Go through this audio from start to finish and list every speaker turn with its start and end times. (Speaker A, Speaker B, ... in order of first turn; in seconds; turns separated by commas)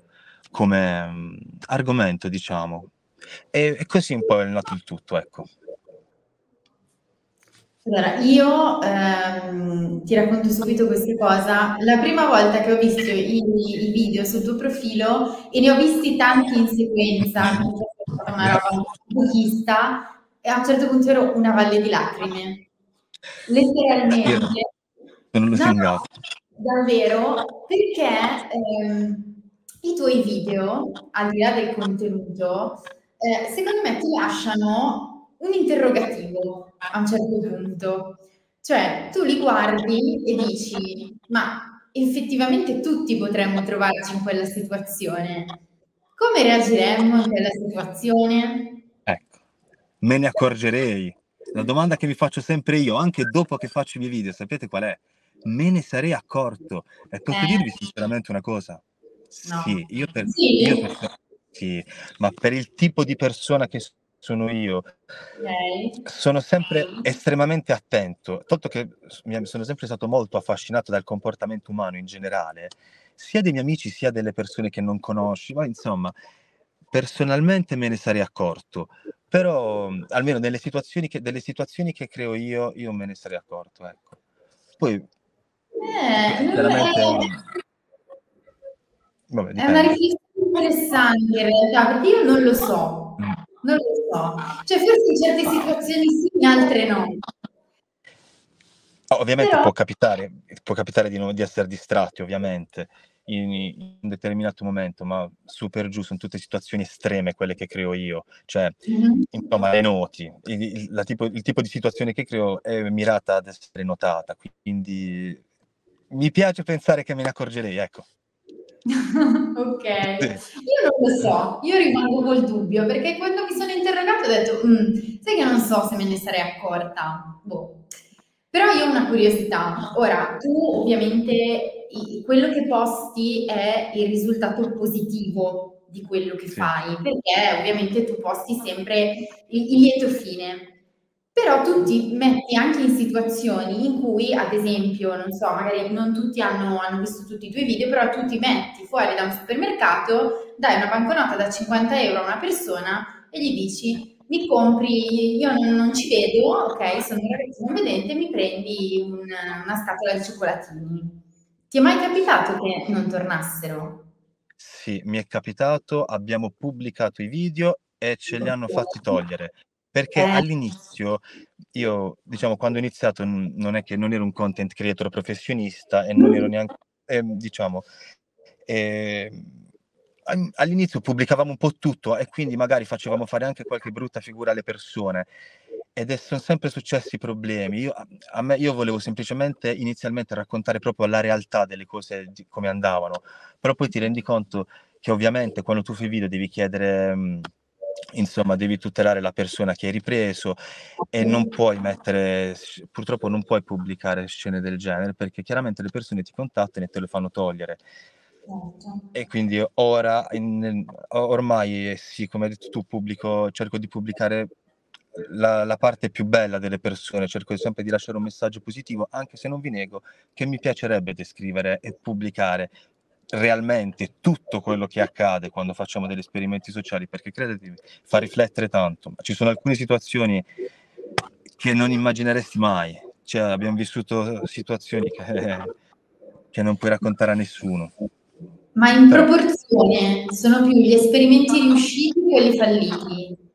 Speaker A: 0.5-2.9, Speaker A: 3.5-5.5, Speaker B: 7.8-22.7, Speaker B: 23.5-24.7, Speaker A: 24.2-24.5, Speaker A: 25.3-26.1, Speaker B: 25.5-25.9, Speaker B: 26.6-45.6, Speaker B: 46.2-48.8, Speaker A: 49.1-49.4, Speaker A: 50.0-64.9, Speaker B: 57.3-57.7, Speaker B: 59.5-60.9, Speaker B: 65.4-66.0, Speaker A: 66.0-76.2, Speaker A: 76.9-84.2, Speaker A: 84.8-85.1, Speaker B: 85.8-87.3, Speaker A: 86.2-87.4, Speaker A: 89.3-90.0, Speaker B: 89.6-97.2, Speaker A: 99.1-108.8, Speaker B: 99.4-99.7, Speaker B: 108.9-109.3, Speaker A: 109.3-115.4, Speaker A: 116.1-118.1, Speaker B: 118.9-127.8, Speaker A: 120.2-120.4, Speaker B: 128.5-140.7, Speaker B: 141.3-164.0, Speaker A: 164.6-171.2, Speaker B: 170.2-170.4, Speaker A: 171.7-177.9, Speaker A: 178.7-179.6, Speaker A: 180.3-185.3, Speaker A: 185.9-197.5, Speaker A: 198.1-200.6, Speaker A: 201.1-207.8, Speaker B: 201.2-201.5, Speaker B: 208.5-209.0, Speaker A: 209.1-214.5, Speaker A: 215.2-222.7, Speaker A: 223.3-230.5, Speaker A: 231.6-235.7, Speaker A: 236.5-237.9, Speaker B: 238.8-243.4